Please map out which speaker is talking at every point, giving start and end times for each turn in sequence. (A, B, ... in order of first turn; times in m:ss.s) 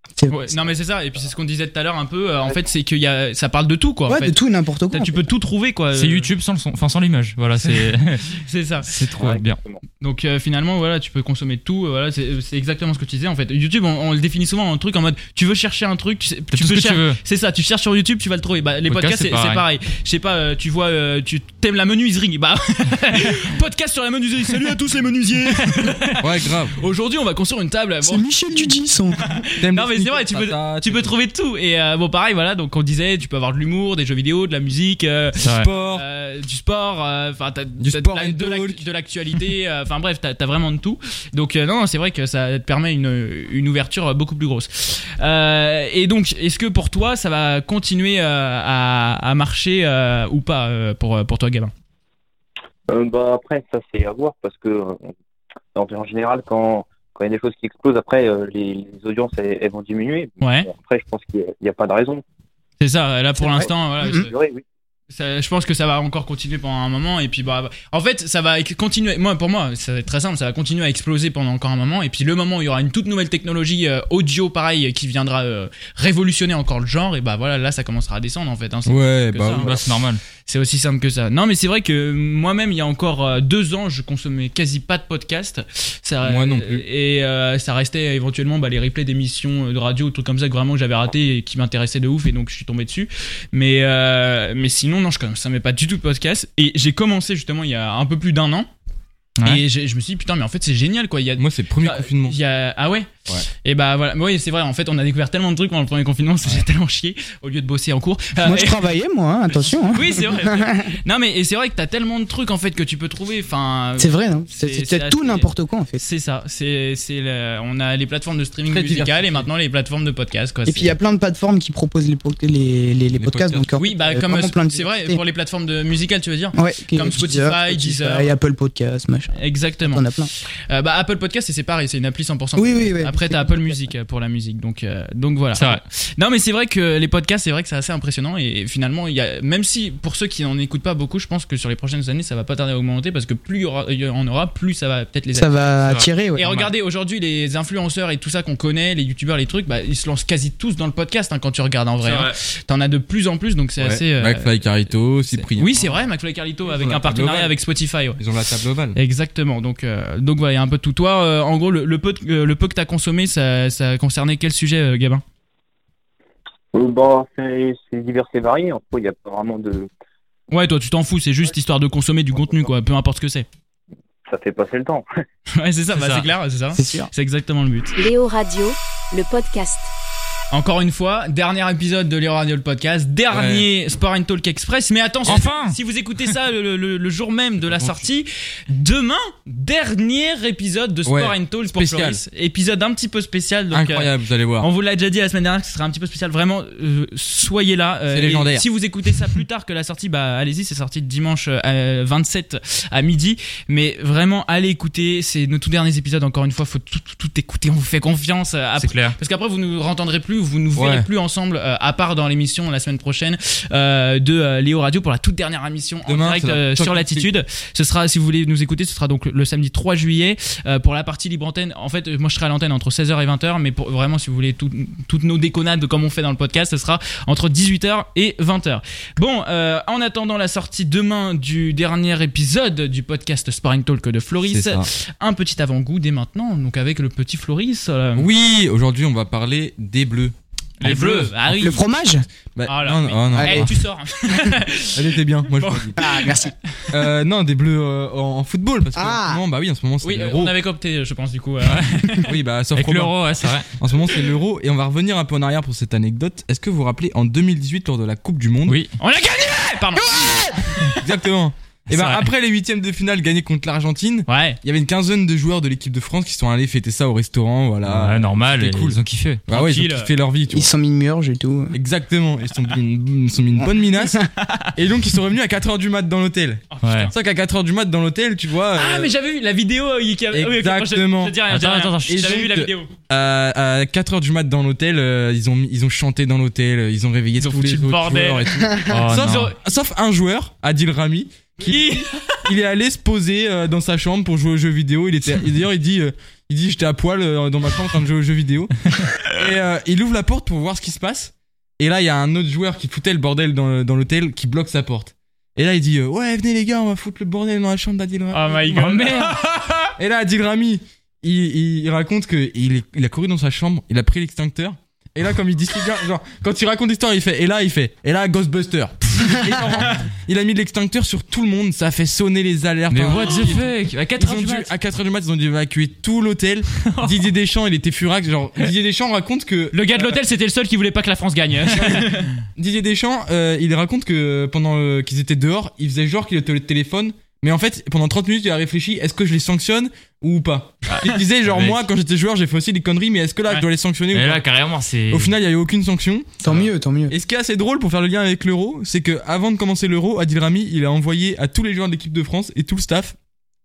0:00.3-0:04.4 A
0:04.1-0:05.2 B
0:04.9-0:06.3 A
0:05.9-0:09.6 C
0:08.4-0:08.9 A
0:09.2-0:09.8 D
0:10.0-0:28.3 A
0:16.5-0:17.2 C
0:18.9-0:19.6 C
0:25.7-0:26.1 C
0:26.2-0:26.7 E
0:28.0-0:29.3 B
0:29.2-0:51.7 A
0:29.6-0:31.1 E
0:35.4-0:35.7 C
0:35.5-0:36.0 E
0:37.8-0:38.8 E
0:52.9-0:55.1 D
0:55.8-1:02.2 D
1:00.4-1:00.7 A
1:02.8-1:04.3 A
1:03.4-1:04.2 B
1:03.5-1:04.6 D
1:05.1-1:19.8 A
1:18.9-1:19.8 E
1:19.5-1:20.2 C
1:20.5-1:38.7 A
1:26.2-1:26.8 E
1:39.4-1:39.6 C
1:39.4-1:48.9 A
1:41.4-1:42.4 E
1:48.4-1:51.0 B
1:49.9-1:55.5 A
1:54.0-1:56.0 B
1:56.0-2:00.9 A
1:58.7-1:59.5 E
2:00.7-2:05.2 B
2:03.2-2:03.7 E
2:03.8-2:08.3 A
2:06.6-2:10.3 B
2:09.4-2:10.1 A
2:10.7-2:25.6 A
2:12.6-2:13.8 B
2:15.5-2:15.8 C
2:25.3-2:26.6 B
2:26.4-2:34.5 A
2:32.0-2:32.4 C
2:33.8-2:35.9 E
2:35.3-2:38.2 A
2:36.7-2:37.5 E
2:38.2-2:39.0 E
2:39.0-2:45.2 A
2:46.7-2:49.9 D
2:50.5-2:53.5 A
2:52.4-2:52.7 D
2:54.3-2:55.1 D
2:55.6-2:57.9 A
2:55.9-2:56.3 C
2:56.7-2:57.1 B
2:58.0-2:59.9 F
3:00.5-3:58.3 A
3:03.3-3:03.7 E
3:05.3-3:05.8 C
3:11.1-3:12.2 E
3:13.7-3:14.7 E
3:18.1-3:18.7 E
3:28.8-3:29.2 C
3:30.8-3:31.1 E
3:36.1-3:37.3 E
3:54.4-3:54.9 E
3:58.2-4:01.4 E
4:00.8-4:01.8 A
4:01.5-4:02.2 B
4:02.6-4:03.7 E
4:02.7-4:06.5 A
4:03.3-4:03.7 B
4:05.0-4:06.0 E
4:06.0-4:06.5 B
4:06.9-4:10.5 E
4:09.0-4:09.4 B
4:10.0-4:12.3 A
4:11.6-4:12.2 C
4:12.2-4:18.8 E
4:12.8-4:13.7 C
4:18.7-4:19.0 C
4:19.0-4:21.0 A
4:20.0-4:20.5 B
4:21.0-4:30.7 E
4:21.9-4:22.2 C
4:24.3-4:24.6 A
4:27.9-4:29.4 C
4:29.5-4:30.1 A
4:30.5-4:31.8 B
4:31.7-4:34.2 E
4:34.2-4:34.7 A
4:34.8-4:39.1 E
4:36.7-4:37.1 A
4:36.8-4:37.1 C
4:38.8-4:42.9 A
4:40.3-4:41.4 E
4:41.4-4:42.3 C
4:42.1-5:09.0 E
4:47.4-4:49.6 A
4:48.9-4:49.5 C
4:51.6-4:52.3 A
5:08.3-5:09.4 A
5:08.7-5:09.9 C
5:10.0-5:30.2 E
5:19.7-5:20.0 A
5:22.9-5:24.7 C
5:23.1-5:23.6 A
5:26.9-5:27.2 A
5:29.7-5:32.4 A
5:32.6-5:44.5 E
5:41.0-5:41.8 C
5:44.1-5:45.3 C
5:45.1-5:46.6 E
5:46.4-5:47.2 B
5:47.1-5:53.2 E